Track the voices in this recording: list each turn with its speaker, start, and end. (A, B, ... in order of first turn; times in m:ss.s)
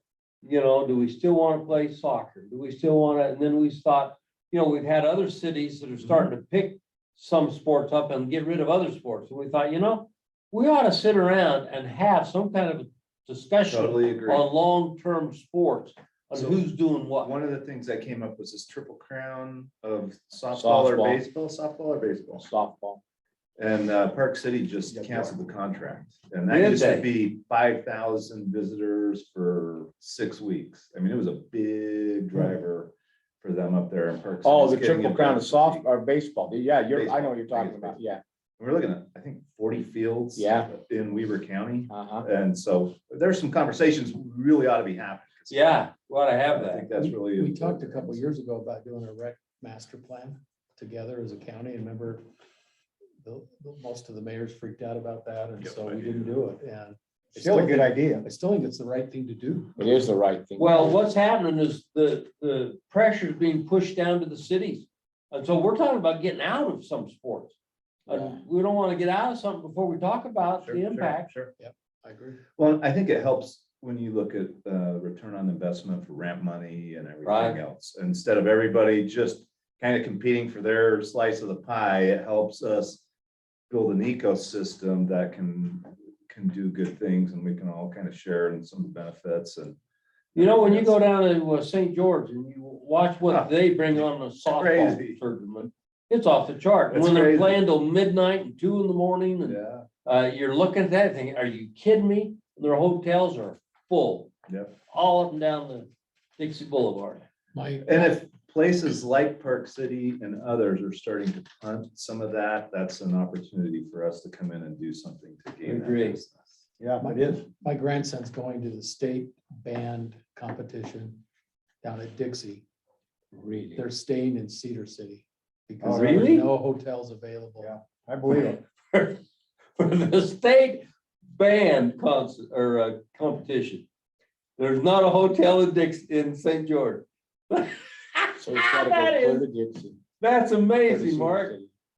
0:00.4-0:17.3 A
0:13.7-0:14.5 B
0:16.3-0:16.6 B
0:17.2-0:22.5 B
0:20.5-0:21.2 C
0:22.4-0:23.0 C
0:23.6-0:35.9 B
0:26.5-0:27.1 A
0:34.4-0:38.2 C
0:36.9-0:38.0 B
0:38.6-0:45.8 B
0:40.4-0:40.7 C
0:41.9-0:42.3 C
0:45.5-0:46.9 A
0:46.5-0:48.2 B
0:46.9-0:52.2 D
0:53.2-1:00.1 D
0:55.6-0:56.4 B
0:57.4-0:58.3 E
0:59.8-1:01.0 C
1:00.6-1:07.6 A
1:08.1-1:11.3 A
1:08.1-1:08.4 C
1:10.6-1:11.5 B
1:11.6-1:12.4 D
1:12.6-1:23.0 B
1:17.2-1:17.6 A
1:23.7-1:29.8 B
1:30.4-1:30.9 B
1:30.4-1:44.3 A
1:34.5-1:35.2 B
1:36.9-1:37.6 B
1:39.4-1:39.9 B
1:44.5-1:44.8 B
1:44.9-1:47.2 A
1:47.5-1:48.2 D
1:47.8-1:56.5 B
1:55.6-1:56.2 A
1:56.8-1:57.4 E
1:57.0-2:01.2 D
2:01.8-2:02.6 D
2:03.3-2:03.8 C
2:03.8-2:07.7 D
2:05.8-2:06.3 E
2:05.9-2:06.5 A
2:07.6-2:08.6 E
2:08.4-2:09.2 A
2:09.8-2:13.9 A
2:14.6-2:19.5 A
2:18.4-2:20.0 C
2:20.2-2:21.6 A
2:20.9-2:21.7 C